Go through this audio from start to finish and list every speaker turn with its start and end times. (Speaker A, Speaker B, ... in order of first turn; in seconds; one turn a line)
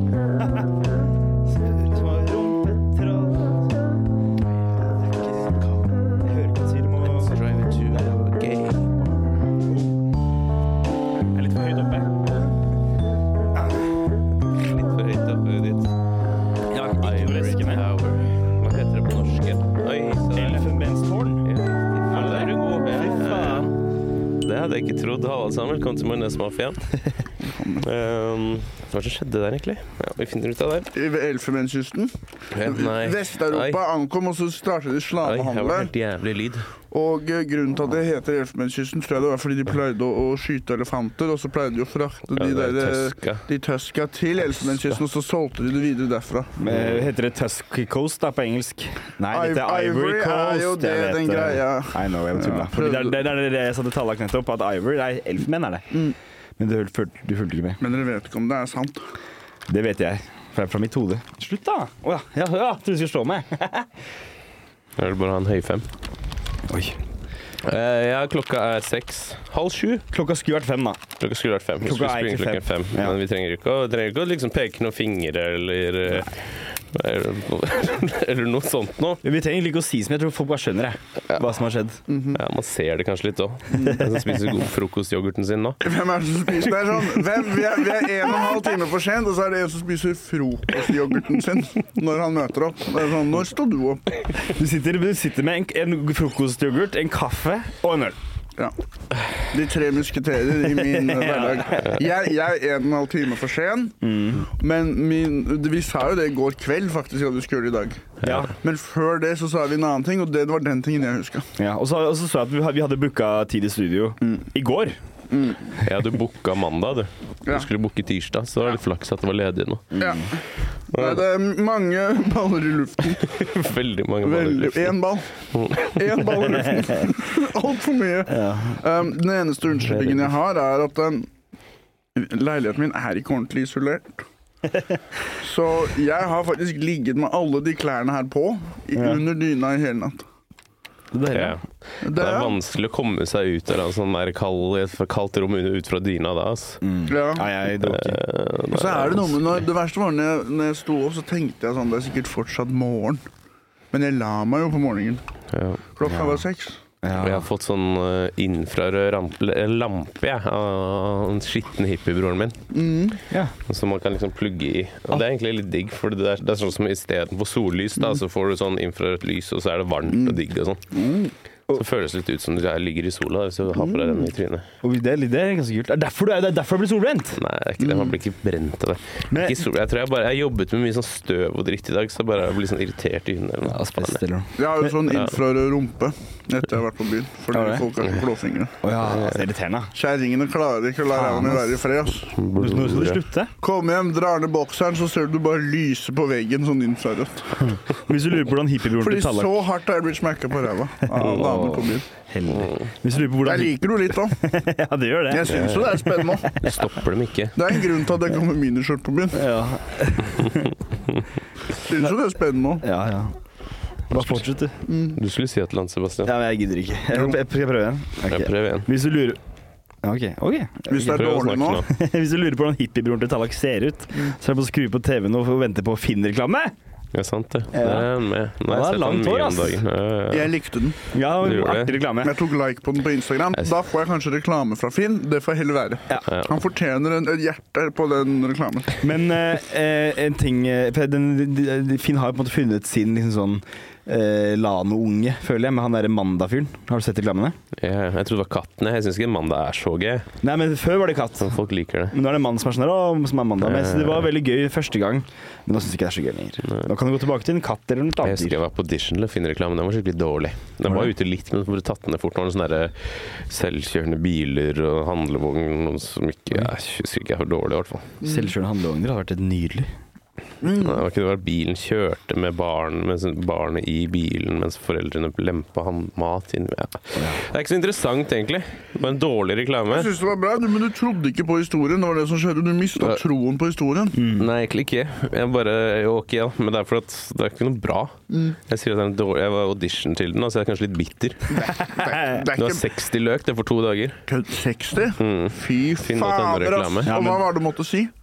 Speaker A: 1.5-3.7
Speaker A: 4.8-7.6
Speaker B: 7.1-9.4
Speaker A: 11.3-12.3
Speaker B: 14.6-15.9
Speaker A: 16.7-17.9
Speaker B: 16.9-20.7
Speaker A: 20.3-21.5
Speaker B: 21.4-23.7
Speaker A: 22.1-23.7
Speaker B: 24.4-26.9
Speaker C: 27.4-27.9
Speaker B: 27.8-30.9
Speaker C: 30.9-32.1
Speaker B: 32.5-33.8
Speaker C: 32.6-35.9
Speaker B: 35.2-36.7
Speaker C: 36.9-46.5
Speaker B: 42.3-43.4
Speaker B: 44.6-45.0
Speaker A: 46.6-56.0
Speaker B: 46.7-47.1
Speaker C: 49.3-53.2
Speaker A: 56.6-57.8
Speaker C: 57.8-59.0
Speaker A: 59.7-63.9
Speaker B: 65.0-65.9
Speaker A: 66.7-67.0
Speaker B: 67.6-70.0
Speaker A: 70.1-71.0
Speaker B: 71.2-79.2
Speaker A: 71.8-73.2
Speaker A: 79.2-82.0
Speaker C: 82.1-82.4
Speaker B: 82.3-85.8
Speaker C: 83.7-84.0
Speaker A: 83.8-84.4
Speaker C: 85.8-94.1
Speaker A: 94.5-98.2
Speaker C: 99.5-111.5
Speaker A: 100.7-102.0
Speaker A: 104.0-104.5
Speaker A: 108.2-108.5
Speaker A: 111.6-115.0
Speaker C: 115.3-115.7
Speaker B: 115.8-120.0
Speaker A: 119.9-120.2
Speaker C: 120.0-120.4
Speaker C: 120.9-123.3
Speaker B: 120.9-121.2
Speaker B: 123.2-125.0
Speaker C: 124.2-131.3
Speaker B: 125.5-126.6
Speaker A: 128.3-128.8
Speaker B: 129.8-130.3
Speaker C: 132.1-134.3
Speaker C: 135.4-140.3
Speaker A: 138.9-139.2
Speaker A: 141.1-141.6
Speaker B: 141.3-146.8
Speaker C: 142.0-142.6
Speaker A: 146.8-148.2
Speaker C: 147.1-147.5
Speaker B: 147.7-149.5
Speaker C: 148.7-153.2
Speaker C: 153.9-155.2
Speaker B: 155.5-155.8
Speaker C: 155.9-156.8
Speaker A: 156.1-156.4
Speaker A: 157.0-157.4
Speaker B: 157.2-162.6
Speaker C: 162.7-163.2
Speaker B: 163.7-170.8
Speaker C: 170.1-170.4
Speaker C: 170.9-171.3
Speaker B: 171.7-174.7
Speaker C: 173.8-174.3
Speaker A: 174.8-177.4
Speaker B: 177.4-184.2
Speaker C: 177.8-178.2
Speaker A: 179.3-179.6
Speaker A: 183.7-184.9
Speaker C: 184.6-188.7
Speaker A: 187.5-187.9
Speaker A: 188.8-189.9
Speaker B: 189.1-189.4
Speaker C: 189.9-192.3
Speaker A: 191.1-191.8
Speaker B: 192.3-193.2
Speaker A: 192.6-193.5
Speaker C: 193.6-197.6
Speaker A: 197.6-199.6
Speaker C: 199.0-202.0
Speaker A: 201.1-206.0
Speaker B: 202.5-202.9
Speaker C: 203.4-204.4
Speaker C: 205.3-206.7
Speaker B: 205.5-207.6
Speaker C: 207.5-209.5
Speaker A: 209.3-210.7
Speaker C: 211.8-212.8
Speaker A: 212.8-213.3
Speaker A: 214.1-214.8
Speaker B: 214.1-214.4
Speaker C: 214.8-215.2
Speaker B: 215.1-216.3
Speaker A: 216.2-219.4
Speaker C: 217.1-217.4
Speaker B: 218.3-218.9
Speaker A: 220.0-221.2
Speaker C: 220.9-221.8
Speaker B: 221.0-221.9
Speaker A: 221.8-226.7
Speaker B: 227.1-230.5
Speaker A: 227.7-228.1
Speaker A: 228.7-229.8
Speaker C: 230.3-231.0
Speaker A: 231.1-232.3
Speaker B: 231.4-232.0
Speaker C: 232.2-238.9
Speaker B: 236.3-236.5
Speaker A: 239.0-247.6
Speaker B: 247.8-250.3
Speaker A: 250.4-251.6
Speaker B: 251.4-252.1
Speaker A: 252.1-258.6
Speaker B: 253.6-254.3
Speaker B: 256.6-256.9
Speaker B: 258.2-268.2
Speaker C: 268.2-268.5
Speaker A: 268.2-269.9
Speaker C: 270.6-271.0
Speaker B: 270.7-280.1
Speaker A: 277.1-277.4
Speaker C: 279.9-284.2
Speaker A: 284.1-284.5
Speaker B: 284.4-291.6
Speaker C: 288.3-288.6
Speaker C: 291.5-292.9
Speaker A: 291.5-292.4
Speaker B: 292.5-294.2
Speaker C: 294.3-298.1
Speaker B: 295.2-297.2
Speaker A: 297.1-297.4